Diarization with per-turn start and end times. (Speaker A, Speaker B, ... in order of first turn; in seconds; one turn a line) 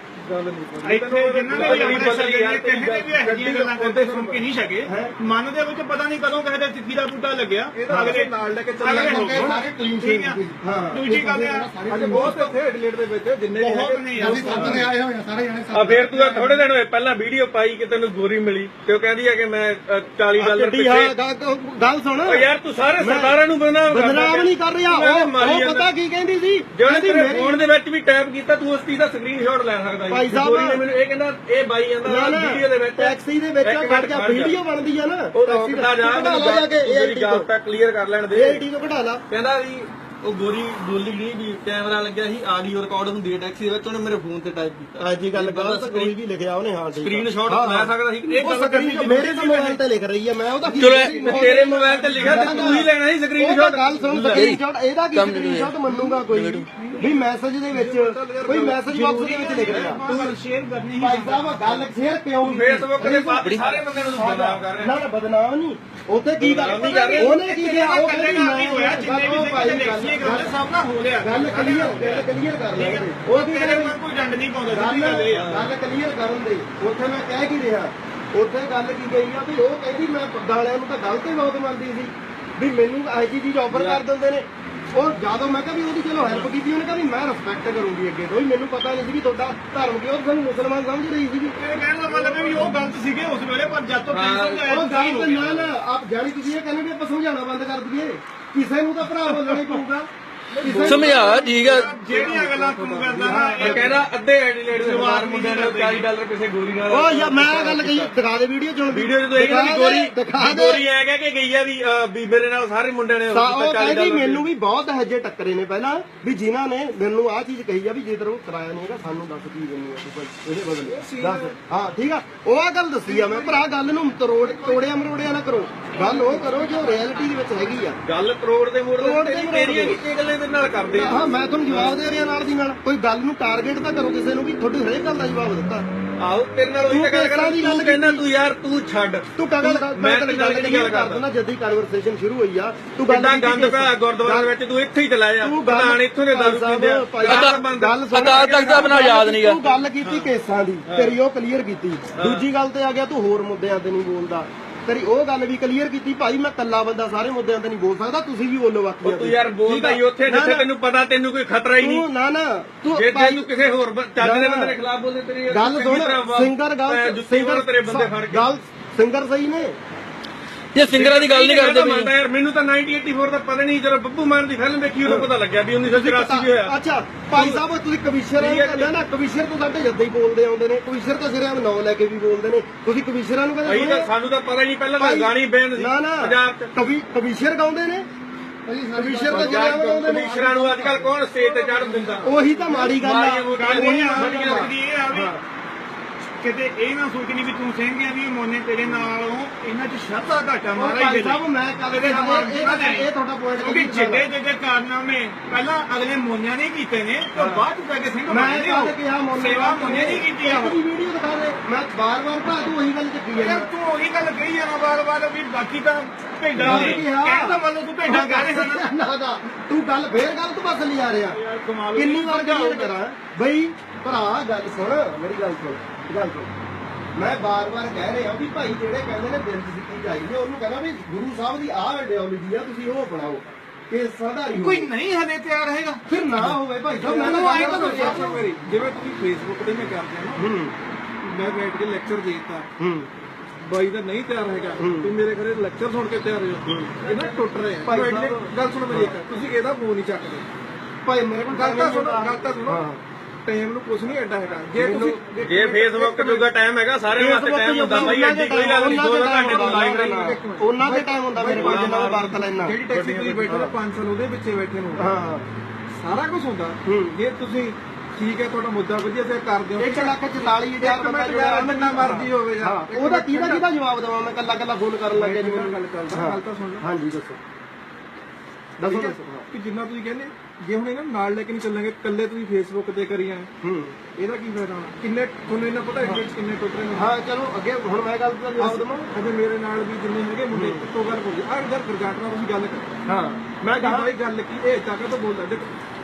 Speaker A: 0.2-2.2
Speaker B: 0.8-12.6
Speaker C: 1.4-4.1
Speaker A: 3.5-4.4
Speaker D: 4.8-5.1
Speaker A: 7.7-9.0
Speaker D: 7.9-8.2
Speaker E: 8.8-12.5
Speaker C: 9.0-9.4
Speaker D: 10.6-11.1
Speaker A: 11.8-14.8
Speaker B: 13.6-14.9
Speaker E: 14.2-16.6
Speaker C: 14.6-14.8
Speaker C: 15.7-21.1
Speaker D: 20.4-27.6
Speaker C: 22.3-25.9
Speaker C: 26.7-34.6
Speaker D: 30.1-30.8
Speaker D: 32.0-37.5
Speaker C: 35.3-38.6
Speaker D: 38.3-39.2
Speaker C: 39.3-46.1
Speaker D: 45.0-60.0
Speaker C: 47.0-49.3
Speaker A: 48.9-49.7
Speaker F: 50.8-51.2
Speaker C: 51.1-54.5
Speaker A: 51.1-52.8
Speaker F: 54.3-54.6
Speaker F: 55.1-56.7
Speaker A: 56.8-59.0
Speaker B: 58.9-61.9
Speaker C: 59.6-60.2
Speaker D: 61.0-63.8
Speaker C: 62.4-65.0
Speaker A: 63.9-64.6
Speaker D: 64.8-70.5
Speaker C: 66.4-67.4
Speaker B: 66.6-75.5
Speaker D: 71.2-74.0
Speaker D: 74.7-91.6
Speaker C: 75.3-75.7
Speaker B: 91.6-95.6
Speaker D: 92.1-92.7
Speaker C: 94.1-94.7
Speaker D: 94.7-100.1
Speaker B: 99.3-99.8
Speaker A: 100.5-103.3
Speaker D: 100.6-101.6
Speaker F: 100.8-101.9
Speaker B: 101.4-103.9
Speaker D: 103.2-104.0
Speaker C: 103.6-108.1
Speaker B: 104.8-106.1
Speaker D: 106.9-110.8
Speaker C: 108.9-114.5
Speaker D: 113.3-128.0
Speaker A: 120.9-121.6
Speaker A: 123.0-123.7
Speaker A: 124.3-124.9
Speaker A: 125.9-127.2
Speaker C: 128.0-132.0
Speaker D: 129.0-130.0
Speaker D: 130.9-135.9
Speaker C: 136.2-141.3
Speaker D: 136.8-138.2
Speaker D: 139.4-144.5
Speaker C: 143.1-149.1
Speaker D: 145.4-160.7
Speaker F: 147.3-147.6
Speaker F: 148.1-149.6
Speaker C: 150.0-150.3
Speaker C: 150.9-151.2
Speaker C: 152.2-152.5
Speaker C: 159.0-162.1
Speaker D: 161.8-163.5
Speaker C: 162.9-168.5
Speaker D: 164.2-164.8
Speaker D: 165.5-169.8
Speaker F: 170.7-172.1
Speaker C: 170.9-176.8
Speaker D: 175.1-175.3
Speaker D: 175.9-184.1
Speaker C: 177.3-177.6
Speaker C: 178.4-178.9
Speaker C: 183.7-186.7
Speaker D: 185.0-188.1
Speaker E: 188.7-192.9
Speaker D: 188.9-190.4
Speaker C: 189.3-192.2
Speaker D: 192.2-195.4
Speaker C: 192.8-194.7
Speaker B: 193.5-195.4
Speaker B: 196.4-210.8
Speaker D: 200.7-204.3
Speaker D: 207.4-207.7
Speaker D: 208.3-213.7
Speaker B: 213.4-218.9
Speaker D: 216.6-221.4
Speaker A: 216.6-217.0
Speaker B: 221.2-223.0
Speaker D: 221.9-226.5
Speaker D: 227.2-234.9
Speaker B: 234.5-236.0
Speaker D: 236.1-238.4
Speaker A: 236.4-240.5
Speaker B: 237.1-238.4
Speaker D: 240.4-240.8
Speaker A: 241.2-242.7
Speaker D: 242.8-243.1
Speaker A: 243.6-250.5
Speaker D: 244.8-245.2
Speaker D: 246.7-247.0
Speaker D: 247.8-249.2
Speaker D: 251.1-253.0
Speaker A: 251.5-252.9
Speaker A: 253.4-256.5
Speaker D: 254.8-255.7
Speaker C: 255.4-260.2
Speaker D: 257.1-262.8
Speaker A: 257.9-265.1
Speaker C: 261.4-263.6
Speaker D: 263.5-263.8
Speaker D: 265.0-265.5
Speaker A: 266.0-273.7
Speaker D: 266.9-267.2
Speaker D: 269.8-277.4
Speaker A: 275.1-276.9
Speaker D: 278.8-279.5
Speaker A: 278.8-283.5
Speaker D: 283.6-284.0
Speaker A: 284.2-287.1
Speaker D: 286.9-289.1
Speaker A: 288.6-292.9
Speaker D: 290.5-290.9
Speaker D: 293.1-294.2
Speaker A: 293.8-295.7